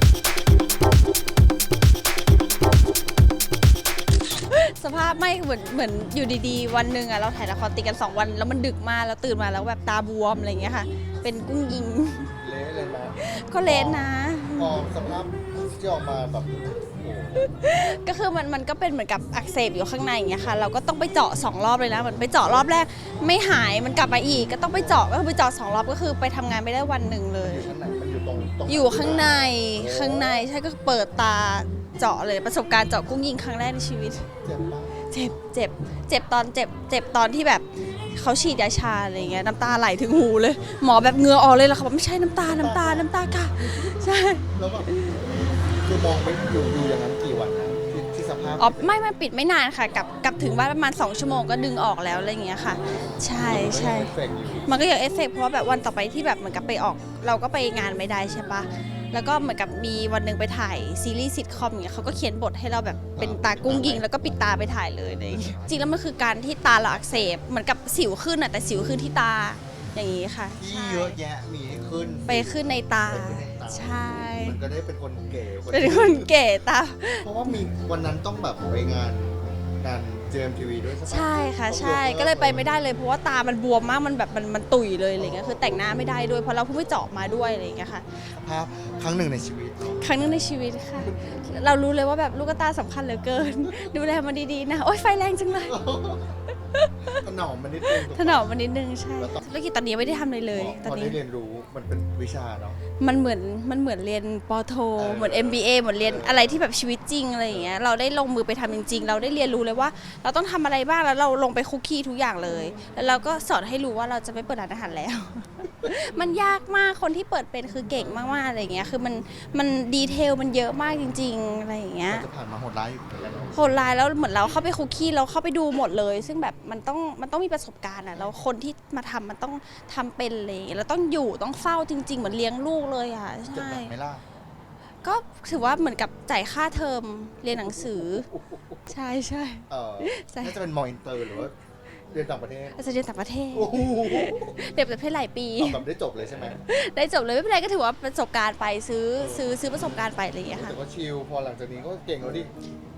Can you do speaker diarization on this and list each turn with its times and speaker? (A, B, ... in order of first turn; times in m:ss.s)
0:04.4-0:12.3 A
0:12.4-0:17.5 B
0:13.2-0:14.7 A
0:17.4-0:27.7 A
0:24.7-0:25.1 B
0:27.4-0:30.5 B
0:28.7-0:34.3 A
0:34.4-0:34.9 B
0:35.0-0:45.2 A
0:42.4-0:44.9 B
0:45.8-0:48.9 B
0:48.6-0:54.1 A
0:53.3-0:54.8 B
0:54.6-1:11.2 A
1:03.2-1:04.1 B
1:05.3-1:06.0 B
1:06.9-1:07.4 B
1:10.6-1:16.4 B
1:12.3-1:14.6 A
1:15.7-1:17.3 A
1:17.2-1:22.7 B
1:21.1-1:28.3 A
1:25.2-1:25.9 B
1:28.3-1:30.4 B
1:30.0-1:35.8 A
1:35.7-1:36.4 B
1:36.7-1:37.2 A
1:37.1-1:38.6 B
1:37.8-1:41.2 A
1:39.2-1:39.5 B
1:40.5-1:42.8 B
1:43.0-2:02.3 A
1:45.0-1:46.6 B
1:47.5-1:47.8 B
2:02.1-2:03.6 B
2:03.5-2:13.9 A
2:13.5-2:14.2 B
2:15.0-2:18.3 A
2:17.6-2:18.8 B
2:18.9-2:20.6 A
2:19.7-2:21.6 B
2:22.1-2:22.8 B
2:22.8-2:25.8 A
2:23.5-2:24.6 B
2:25.6-2:26.6 B
2:26.6-2:30.8 A
2:29.2-2:32.5 B